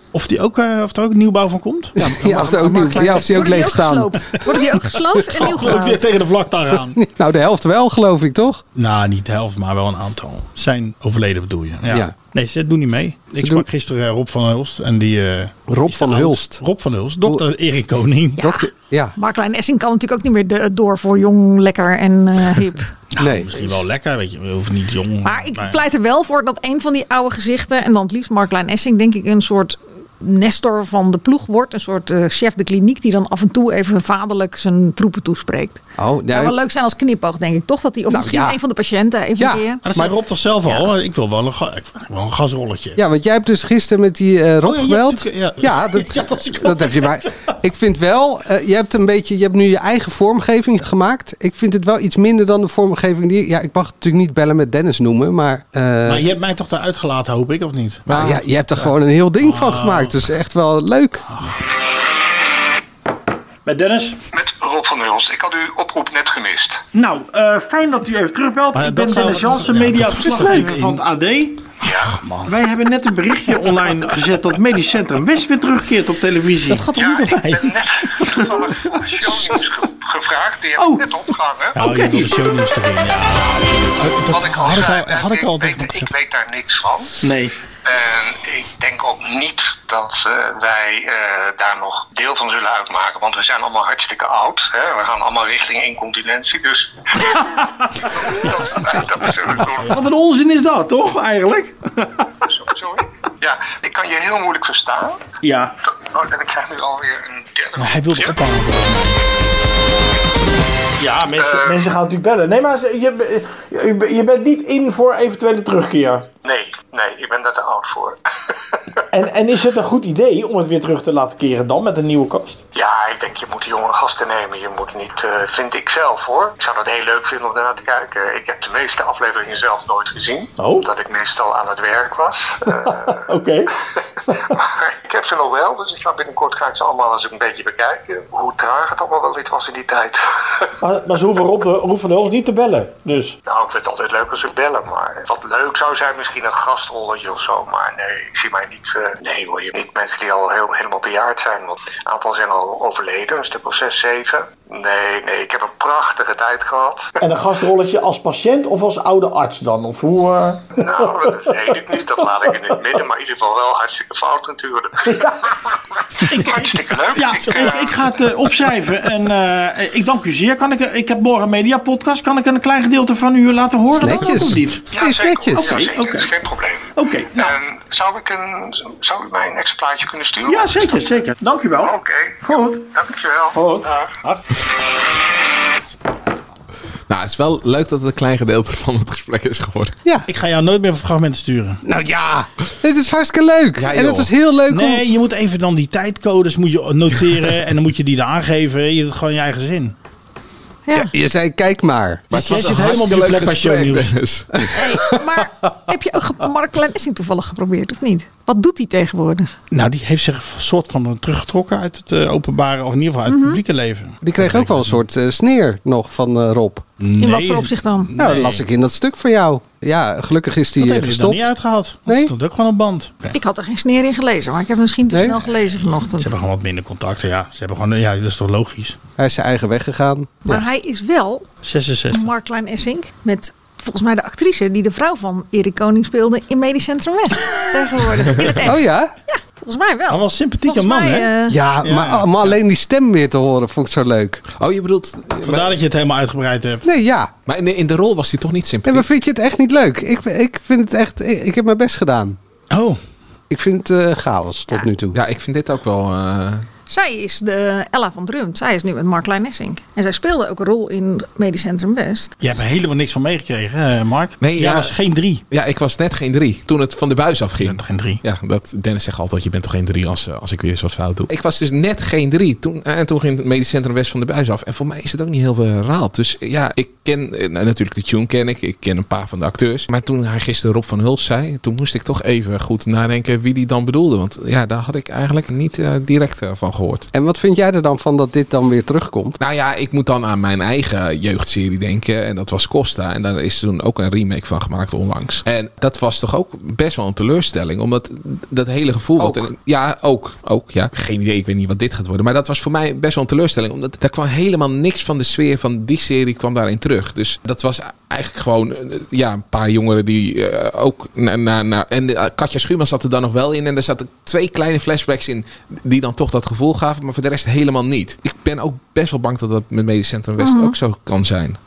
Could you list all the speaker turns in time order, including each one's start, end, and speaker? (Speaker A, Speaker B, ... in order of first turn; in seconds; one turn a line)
Speaker A: 0.1-3.2
Speaker B: 1.9-4.5
Speaker C: 2.2-6.0
Speaker A: 5.3-7.0
Speaker B: 6.7-8.6
Speaker A: 8.7-18.4
Speaker B: 11.9-12.1
Speaker B: 13.4-13.7
Speaker B: 15.7-16.6
Speaker C: 18.4-22.9
Speaker B: 18.4-19.1
Speaker A: 23.1-25.8
Speaker B: 23.2-23.5
Speaker C: 25.2-39.8
Speaker B: 36.0-36.6
Speaker B: 38.1-38.6
Speaker B: 39.4-40.1
Speaker A: 39.8-43.0
Speaker B: 43.0-56.3
Speaker A: 44.6-47.2
Speaker A: 56.0-58.1
Speaker D: 58.1-58.4
Speaker B: 58.1-61.2
Speaker A: 58.8-60.1
Speaker A: 61.3-61.5
Speaker E: 63.6-64.2
Speaker F: 64.3-66.8
Speaker E: 66.9-71.7
Speaker A: 68.7-71.0
Speaker F: 71.8-72.2
Speaker A: 72.2-72.5
Speaker E: 72.4-76.8
Speaker A: 73.4-74.0
Speaker A: 76.6-78.6
Speaker F: 76.9-82.3
Speaker A: 81.7-86.1
Speaker E: 81.8-82.2
Speaker F: 84.2-87.2
Speaker F: 87.8-100.0
Speaker A: 99.8-100.0
Speaker E: 100.0-101.7
Speaker F: 102.4-105.2
Speaker F: 105.8-108.4
Speaker A: 107.8-109.2
Speaker E: 111.0-113.0
Speaker F: 111.4-111.9
Speaker A: 111.4-111.9
Speaker A: 112.7-116.2
Speaker F: 116.4-118.8
Speaker E: 119.1-122.6
Speaker A: 120.9-121.1
Speaker F: 122.7-133.2
Speaker E: 133.3-133.6
Speaker F: 134.4-140.7
Speaker E: 140.8-143.3
Speaker F: 143.4-157.1
Speaker E: 157.2-160.7
Speaker F: 160.8-168.2
Speaker E: 167.2-174.8
Speaker A: 167.3-168.9
Speaker B: 173.9-175.8
Speaker A: 174.0-174.4
Speaker F: 174.9-181.2
Speaker E: 175.7-176.2
Speaker E: 177.0-177.3
Speaker E: 180.5-181.9
Speaker F: 181.8-184.1
Speaker E: 183.6-183.8
Speaker D: 187.1-189.9
Speaker A: 190.3-191.8
Speaker B: 191.8-195.0
Speaker D: 193.8-194.3
Speaker A: 194.7-199.9
Speaker C: 200.8-201.1
Speaker B: 200.9-202.2
Speaker D: 202.3-204.6
Speaker A: 202.3-204.2
Speaker C: 204.7-209.5
Speaker A: 209.7-215.0
Speaker C: 213.3-213.6
Speaker B: 214.2-216.8
Speaker A: 217.0-218.6
Speaker C: 217.2-218.1
Speaker B: 218.2-221.5
Speaker A: 220.8-223.3
Speaker B: 222.1-222.3
Speaker C: 223.3-226.3
Speaker B: 225.1-225.4
Speaker A: 226.2-229.0
Speaker B: 229.2-230.6
Speaker C: 230.4-231.5
Speaker A: 231.6-232.3
Speaker C: 232.1-241.6
Speaker B: 238.6-239.1
Speaker A: 240.1-241.3
Speaker B: 241.5-244.4
Speaker A: 241.8-242.5
Speaker D: 244.6-245.8
Speaker A: 245.4-246.8
Speaker B: 246.8-247.3
Speaker D: 247.4-249.1
Speaker B: 248.8-252.4
Speaker A: 252.7-253.0
Speaker B: 253.5-255.2
Speaker D: 255.1-256.6
Speaker C: 256.9-262.3
Speaker A: 262.4-265.4
Speaker D: 264.4-264.9
Speaker D: 265.5-287.1
Speaker A: 267.6-268.2
Speaker B: 287.1-289.4
Speaker D: 289.4-321.6
Speaker B: 299.2-299.5
Speaker C: 320.4-320.7